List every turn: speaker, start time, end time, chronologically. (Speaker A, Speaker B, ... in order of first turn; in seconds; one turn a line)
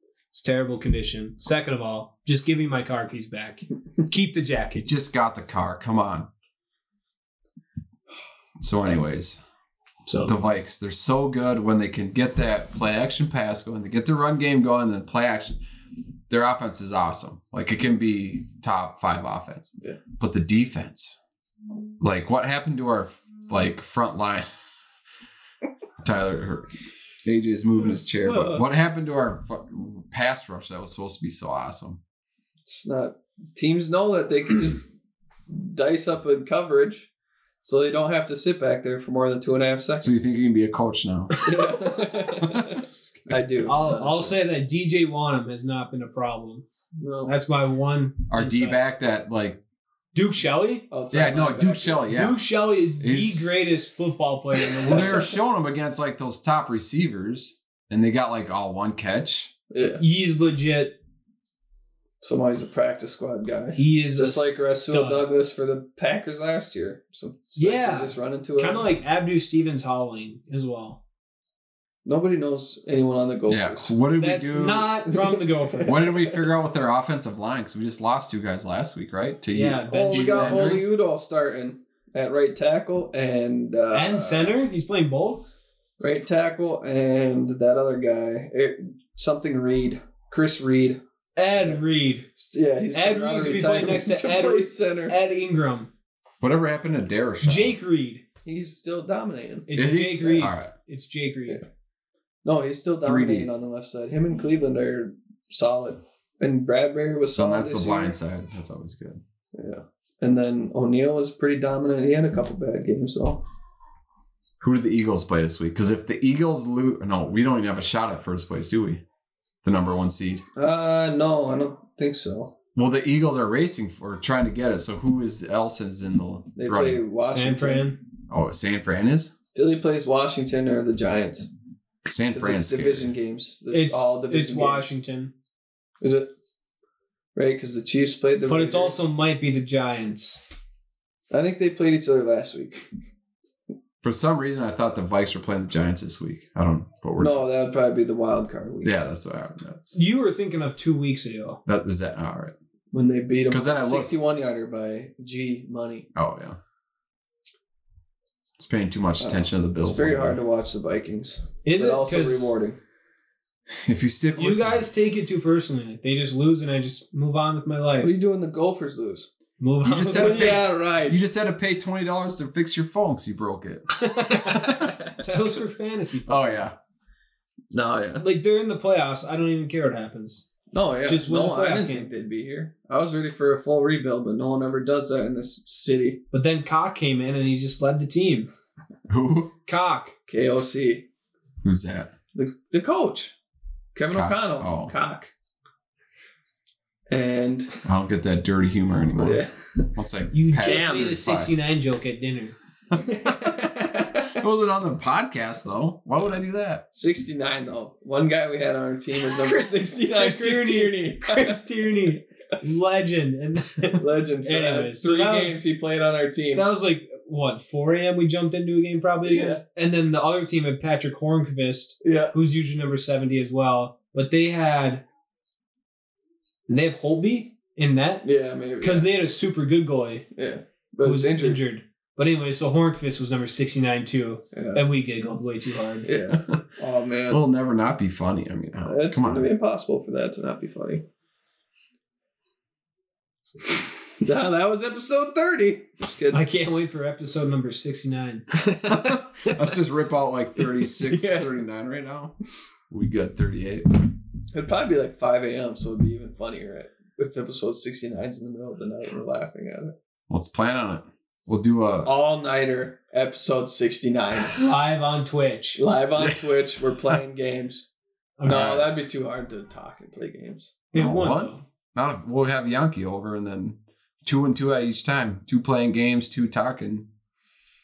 Speaker A: 0.3-4.9
Speaker B: 4.8-6.3
Speaker B: 8.6-9.4
Speaker A: 10.1-10.4
Speaker B: 10.2-15.6
Speaker B: 16.3-21.2
Speaker B: 22.0-24.4
Speaker B: 26.0-26.7
Speaker B: 27.2-32.0
Speaker C: 28.1-28.6
Speaker C: 32.6-34.9
Speaker C: 35.5-37.1
Speaker C: 37.6-40.3
Speaker B: 40.0-41.4
Speaker C: 41.4-44.4
Speaker A: 43.6-46.6
Speaker C: 47.0-47.3
Speaker A: 47.2-48.8
Speaker B: 48.3-49.6
Speaker A: 50.1-50.9
Speaker C: 50.9-52.0
Speaker B: 51.1-52.5
Speaker A: 52.1-55.2
Speaker B: 53.0-53.6
Speaker B: 54.8-59.5
Speaker C: 54.9-55.2
Speaker C: 59.7-60.0
Speaker A: 60.0-61.0
Speaker C: 62.2-68.9
Speaker A: 63.7-65.2
Speaker A: 67.6-71.0
Speaker C: 72.0-74.0
Speaker B: 73.5-75.0
Speaker A: 74.2-76.1
Speaker C: 75.1-76.2
Speaker B: 75.8-80.8
Speaker A: 79.5-80.8
Speaker C: 79.9-84.5
Speaker A: 83.9-85.5
Speaker C: 86.0-91.0
Speaker A: 91.3-92.3
Speaker C: 91.5-91.8
Speaker C: 92.3-95.2
Speaker A: 92.9-95.9
Speaker B: 96.4-97.8
Speaker A: 97.4-98.2
Speaker C: 98.4-99.7
Speaker A: 99.7-101.6
Speaker B: 99.7-100.7
Speaker C: 102.4-108.2
Speaker B: 103.0-103.5
Speaker B: 107.3-109.2
Speaker C: 109.5-113.4
Speaker B: 114.6-119.0
Speaker B: 119.6-120.4
Speaker C: 120.5-122.5
Speaker B: 122.8-127.0
Speaker C: 126.5-127.9
Speaker A: 127.2-128.0
Speaker B: 128.3-129.3
Speaker C: 129.5-131.5
Speaker B: 132.1-133.1
Speaker C: 132.3-134.9
Speaker A: 133.7-135.3
Speaker C: 136.0-136.3
Speaker C: 137.3-139.0
Speaker A: 138.5-140.4
Speaker C: 141.3-142.9
Speaker B: 144.0-147.4
Speaker C: 147.2-148.9
Speaker B: 148.8-150.0
Speaker A: 149.9-151.6
Speaker B: 151.7-152.6
Speaker C: 152.9-156.1
Speaker B: 153.5-154.1
Speaker B: 156.1-156.6
Speaker B: 158.6-160.4
Speaker C: 159.2-162.8
Speaker A: 161.6-162.6
Speaker B: 163.7-164.8
Speaker A: 164.3-168.1
Speaker C: 168.0-169.3
Speaker A: 169.6-170.6
Speaker B: 169.8-174.6
Speaker C: 170.1-171.2
Speaker A: 174.0-176.7
Speaker C: 174.6-175.3
Speaker B: 176.3-176.8
Speaker C: 177.7-178.2
Speaker A: 178.2-180.5
Speaker C: 180.7-186.2
Speaker A: 181.0-182.1
Speaker A: 186.3-188.5
Speaker B: 189.1-189.5
Speaker A: 189.7-190.1
Speaker C: 190.3-191.1
Speaker B: 191.6-192.1
Speaker C: 192.3-193.3
Speaker C: 193.9-195.3
Speaker B: 194.1-194.9
Speaker C: 197.1-197.8
Speaker B: 197.8-199.4
Speaker C: 199.2-199.9
Speaker B: 199.9-201.5
Speaker A: 200.3-202.5
Speaker C: 200.6-201.2
Speaker C: 203.2-204.3
Speaker B: 204.3-206.8
Speaker C: 206.9-212.1
Speaker A: 209.2-215.6
Speaker C: 213.8-216.7
Speaker A: 216.5-225.0
Speaker C: 219.2-219.6
Speaker C: 222.0-222.3
Speaker A: 226.7-228.3
Speaker C: 228.2-229.1
Speaker A: 228.8-230.2
Speaker C: 230.3-231.6
Speaker A: 231.0-236.1
Speaker C: 234.5-234.8
Speaker C: 236.1-237.4
Speaker B: 237.3-239.5
Speaker C: 238.8-241.0
Speaker C: 244.2-246.4
Speaker A: 246.3-248.4
Speaker C: 248.6-249.6
Speaker B: 248.8-252.3
Speaker C: 250.6-251.6
Speaker B: 252.9-253.9
Speaker C: 254.5-259.9
Speaker B: 260.3-262.1
Speaker C: 262.0-264.6
Speaker A: 264.6-265.8
Speaker C: 265.8-267.9
Speaker A: 268.4-268.8
Speaker C: 268.4-270.8
Speaker B: 268.5-268.9
Speaker A: 270.9-271.6
Speaker B: 270.9-277.1